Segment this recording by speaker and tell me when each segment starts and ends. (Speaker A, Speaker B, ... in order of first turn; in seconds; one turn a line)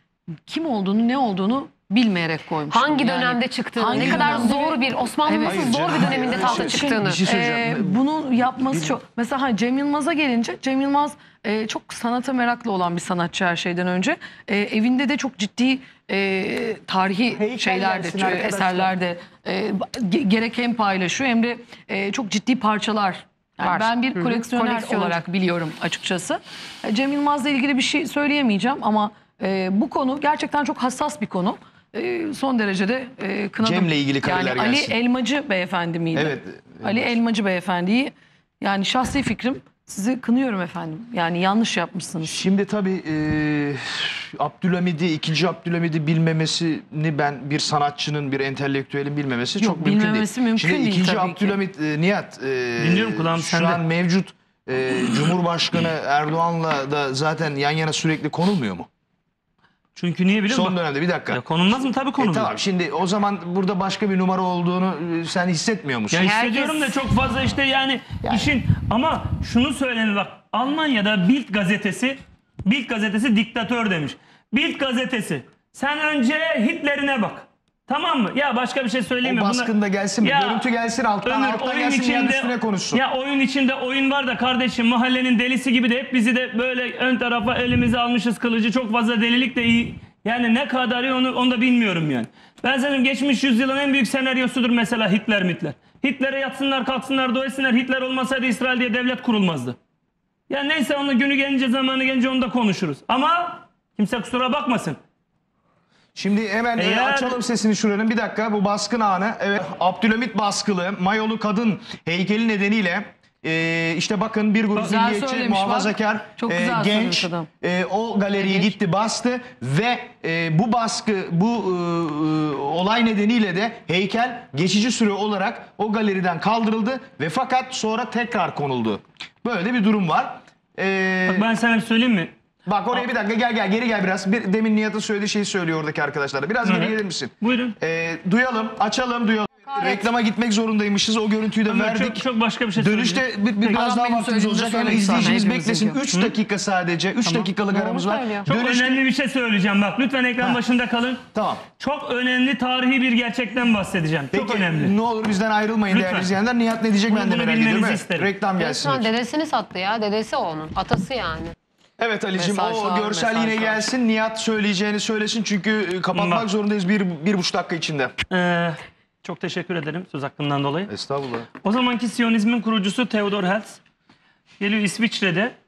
Speaker A: 0.5-42.4
Speaker B: 2.7-7.3
Speaker C: 3.9-4.5
Speaker C: 5.4-9.0
Speaker C: 17.3-18.9
Speaker B: 23.6-25.2
Speaker C: 33.6-35.0
Speaker C: 36.1-37.1
Speaker C: 42.2-58.9
Speaker A: 49.6-51.6
Speaker D: 52.8-53.8
Speaker D: 59.9-60.8
Speaker C: 60.5-61.4
Speaker D: 61.3-62.5
Speaker C: 62.2-66.4
Speaker D: 66.1-80.7
Speaker B: 66.2-67.0
Speaker C: 68.2-68.5
Speaker C: 79.2-83.0
Speaker D: 81.2-99.8
Speaker D: 100.5-105.0
Speaker C: 106.1-131.5
Speaker D: 106.8-107.4
Speaker A: 114.8-117.5
Speaker A: 118.3-118.7
Speaker D: 131.3-132.3
Speaker C: 132.7-142.2
Speaker D: 136.6-137.7
Speaker B: 139.7-140.1
Speaker D: 141.7-143.9
Speaker C: 142.8-149.0
Speaker A: 143.7-146.0
Speaker A: 147.2-147.5
Speaker B: 147.7-148.5
Speaker D: 148.4-151.2
Speaker C: 151.3-151.6
Speaker D: 151.8-154.9
Speaker C: 154.3-159.1
Speaker D: 155.9-156.3
Speaker D: 157.1-158.3
Speaker B: 158.6-161.5
Speaker C: 162.0-168.1
Speaker A: 162.3-163.9
Speaker D: 166.1-166.5
Speaker D: 168.3-170.9
Speaker C: 170.9-171.5
Speaker D: 171.6-173.8
Speaker D: 174.6-175.5